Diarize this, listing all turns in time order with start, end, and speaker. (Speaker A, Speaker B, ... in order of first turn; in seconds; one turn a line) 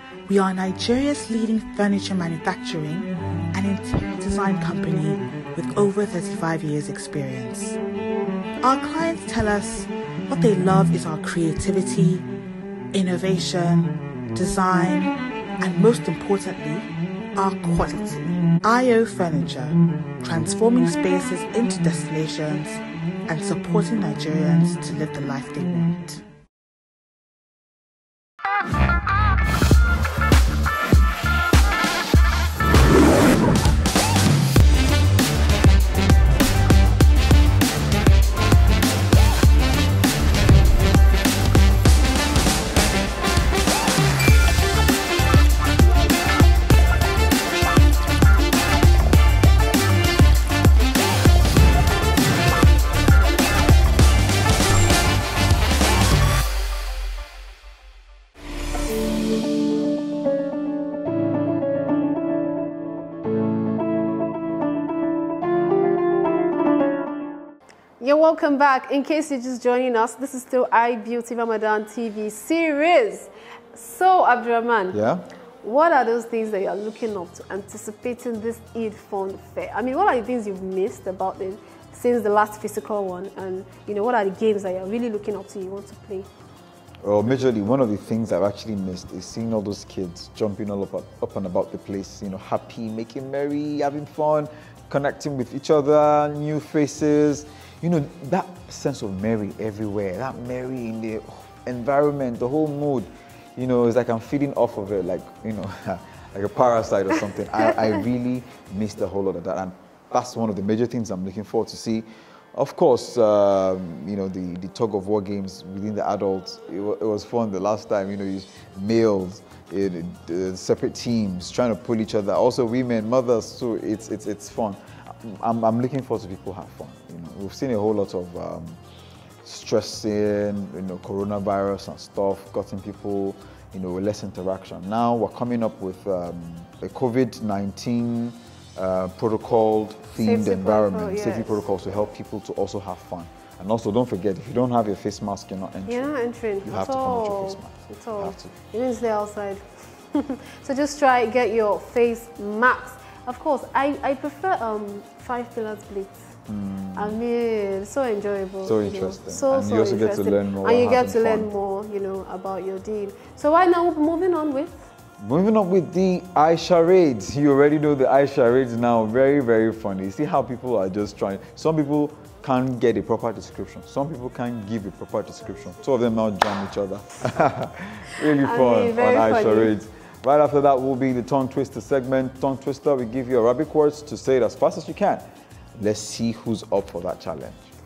Speaker A: 0.3-7.8
Speaker A: 8.6-12.3
Speaker A: 12.9-26.2
Speaker B: 68.0-75.0
Speaker C: 74.9-75.2
Speaker B: 75.6-86.3
Speaker C: 87.0-128.8
Speaker C: 129.4-146.1
Speaker B: 140.2-141.7
Speaker B: 145.9-156.3
Speaker C: 146.6-148.5
Speaker C: 156.5-157.2
Speaker B: 156.9-164.8
Speaker C: 158.6-161.5
Speaker C: 165.2-185.2
Speaker B: 178.4-179.7
Speaker C: 185.8-187.7